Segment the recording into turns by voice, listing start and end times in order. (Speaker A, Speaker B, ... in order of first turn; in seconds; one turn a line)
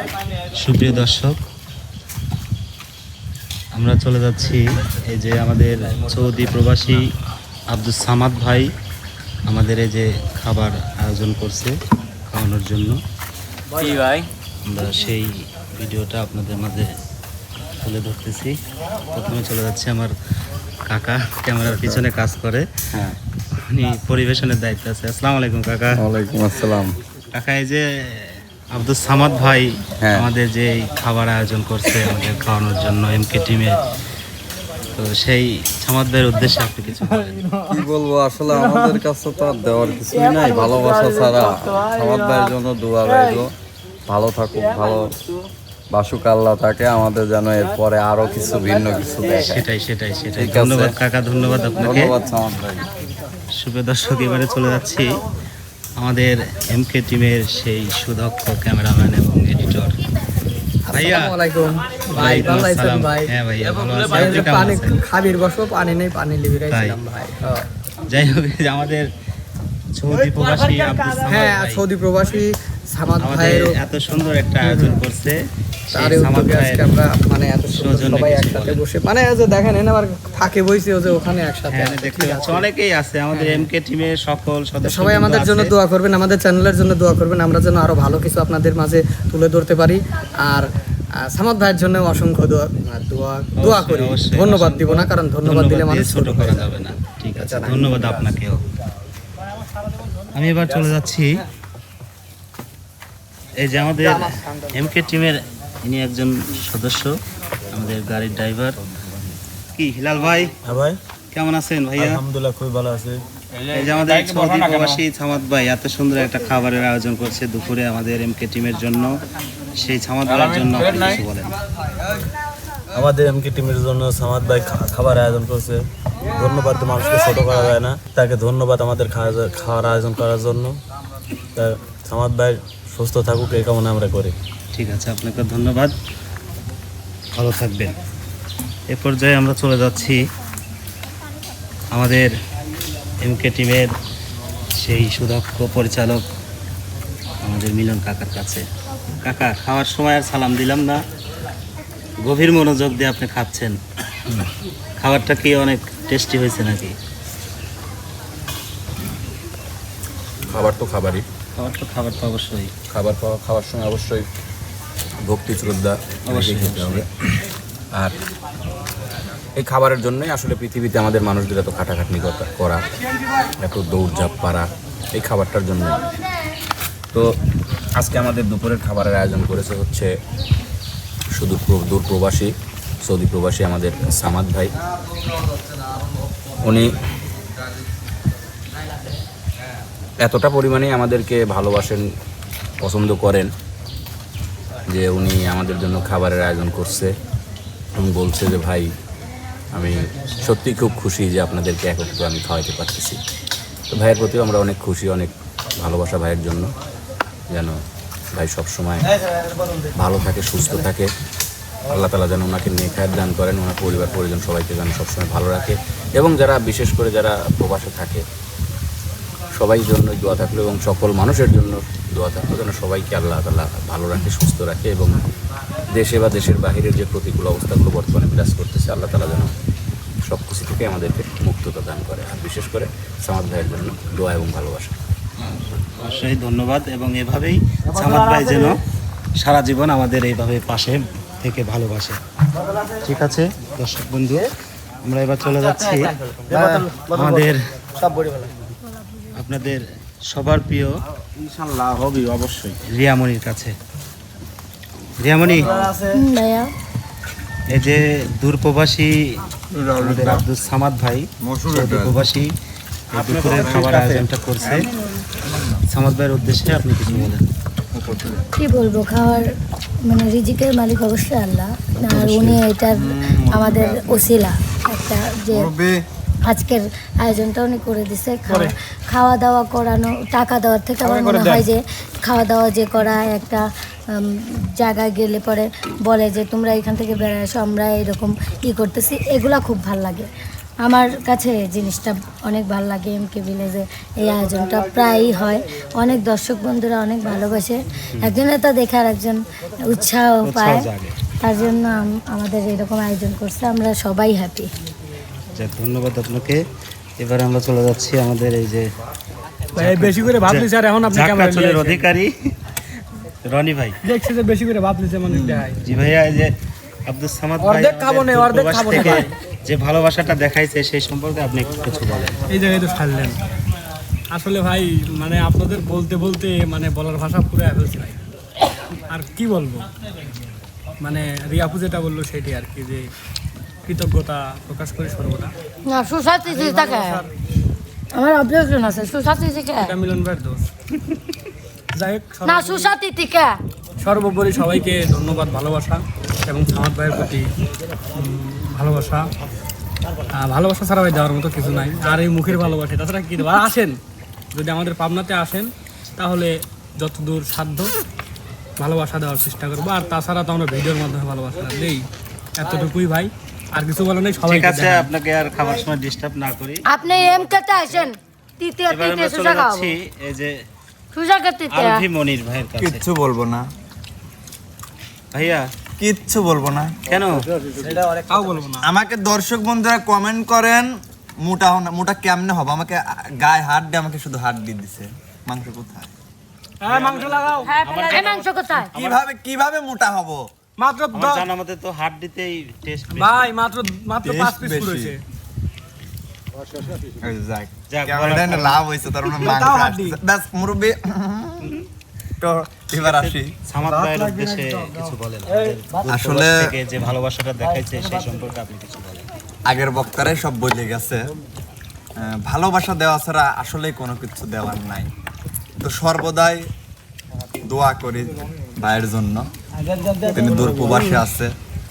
Speaker A: 0.6-1.4
Speaker A: 3.7-7.1
Speaker A: 7.7-8.7
Speaker A: 9.5-11.7
Speaker A: 12.3-13.0
Speaker A: 14.7-16.9
Speaker A: 17.8-18.6
Speaker A: 19.1-20.1
Speaker A: 20.9-22.6
Speaker A: 23.6-26.1
Speaker B: 26.0-26.9
Speaker A: 27.3-33.8
Speaker B: 30.0-30.3
Speaker A: 34.9-37.5
Speaker B: 37.7-43.5
Speaker B: 44.1-45.1
Speaker B: 45.9-49.6
Speaker A: 49.3-52.2
Speaker B: 50.4-50.9
Speaker B: 51.6-52.8
Speaker A: 53.5-55.2
Speaker A: 56.0-60.0
Speaker C: 60.9-63.3
Speaker A: 60.9-61.4
Speaker A: 62.1-65.0
Speaker C: 64.1-67.6
Speaker A: 66.7-67.0
Speaker A: 68.1-69.1
Speaker A: 69.9-71.8
Speaker C: 70.8-73.8
Speaker A: 73.2-75.4
Speaker C: 74.6-75.0
Speaker A: 75.9-76.9
Speaker C: 75.9-82.7
Speaker A: 77.7-78.8
Speaker A: 81.7-85.7
Speaker C: 83.3-83.7
Speaker C: 84.8-90.7
Speaker C: 91.2-96.8
Speaker A: 93.5-98.6
Speaker C: 97.3-98.2
Speaker A: 100.3-101.4
Speaker A: 103.6-107.1
Speaker C: 104.0-104.6
Speaker A: 107.7-108.8
Speaker A: 109.7-110.5
Speaker D: 110.6-110.9
Speaker A: 111.3-112.2
Speaker D: 112.2-113.2
Speaker A: 113.7-119.1
Speaker A: 119.8-121.5
Speaker D: 122.9-125.7
Speaker D: 126.3-130.7
Speaker D: 131.6-134.3
Speaker A: 134.7-135.9
Speaker A: 137.3-137.9
Speaker A: 138.9-140.2
Speaker A: 141.9-142.3
Speaker A: 143.2-143.9
Speaker A: 144.7-146.2
Speaker A: 147.4-148.6
Speaker A: 149.2-151.0
Speaker A: 152.2-153.8
Speaker A: 155.0-156.9
Speaker E: 160.5-161.2
Speaker A: 161.6-162.7
Speaker E: 162.9-164.3
Speaker E: 165.2-167.1
Speaker A: 166.3-167.0
Speaker E: 169.6-172.8
Speaker E: 173.6-176.1
Speaker E: 177.9-180.1
Speaker E: 181.3-184.7
Speaker E: 186.6-186.9
Speaker E: 190.2-192.1
Speaker E: 192.8-193.5
Speaker E: 194.9-197.2
Speaker E: 197.9-198.9
Speaker E: 199.7-203.2
Speaker E: 203.9-206.7
Speaker E: 207.5-207.8
Speaker E: 208.3-209.1
Speaker E: 209.9-211.1
Speaker E: 211.9-218.2
Speaker E: 219.5-225.2
Speaker E: 225.9-229.5
Speaker E: 230.2-234.9
Speaker A: 235.7-238.8
Speaker A: 239.4-242.2
Speaker A: 243.0-244.5
Speaker A: 245.0-247.6
Speaker D: 245.6-247.5
Speaker D: 248.0-248.5
Speaker A: 249.3-251.0
Speaker A: 251.6-253.7
Speaker A: 255.2-255.7
Speaker D: 255.7-256.1
Speaker F: 256.1-256.7
Speaker A: 257.7-259.1
Speaker G: 259.7-260.4
Speaker A: 259.9-262.5
Speaker G: 261.4-262.1
Speaker A: 263.1-264.9
Speaker G: 263.2-264.8
Speaker A: 265.9-267.4
Speaker G: 267.9-268.4
Speaker F: 268.6-269.4
Speaker F: 270.1-275.7
Speaker G: 273.2-274.3
Speaker G: 275.6-275.9
Speaker F: 276.5-283.6
Speaker H: 281.2-281.6
Speaker F: 284.2-290.2
Speaker F: 290.8-300.8
Speaker A: 298.2-298.4
Speaker A: 300.4-301.1
Speaker F: 301.4-304.7
Speaker A: 305.5-306.6
Speaker A: 307.2-308.9
Speaker H: 309.8-312.1
Speaker A: 309.8-312.5
Speaker A: 313.4-313.9
Speaker H: 314.0-315.8
Speaker G: 315.3-315.6
Speaker A: 315.8-316.5
Speaker A: 317.1-322.4
Speaker H: 317.6-319.3
Speaker H: 322.5-323.4
Speaker H: 324.3-328.2
Speaker H: 329.1-329.9
Speaker H: 331.0-333.1
Speaker H: 333.9-335.5
Speaker F: 335.9-337.2
Speaker H: 336.4-337.2
Speaker F: 338.1-339.9
Speaker H: 339.8-340.6
Speaker H: 341.9-342.9
Speaker F: 342.4-343.5
Speaker H: 344.0-347.5
Speaker H: 348.1-349.3
Speaker H: 350.4-354.0
Speaker H: 354.5-357.9
Speaker H: 358.8-362.0
Speaker H: 362.6-365.1
Speaker A: 364.4-366.8
Speaker F: 366.9-369.9
Speaker A: 368.9-370.5
Speaker F: 371.1-372.0
Speaker A: 371.7-373.0
Speaker G: 372.8-373.7
Speaker A: 375.3-375.7
Speaker G: 376.0-377.0
Speaker A: 377.1-377.5
Speaker D: 377.6-378.8
Speaker H: 378.3-378.7
Speaker G: 378.8-380.9
Speaker G: 381.4-386.1
Speaker H: 386.8-388.2
Speaker A: 387.8-389.2
Speaker F: 388.1-388.9
Speaker G: 388.9-390.5
Speaker H: 390.8-391.4
Speaker A: 391.1-393.5
Speaker H: 393.1-395.2
Speaker G: 394.2-395.1
Speaker G: 397.2-401.7
Speaker A: 397.9-398.8
Speaker H: 399.4-400.2
Speaker G: 402.4-403.5
Speaker A: 403.0-409.2
Speaker G: 406.1-406.8
Speaker G: 409.6-411.3
Speaker G: 412.2-415.1
Speaker G: 415.8-416.7
Speaker G: 417.6-419.5
Speaker D: 419.9-421.1
Speaker G: 420.3-421.5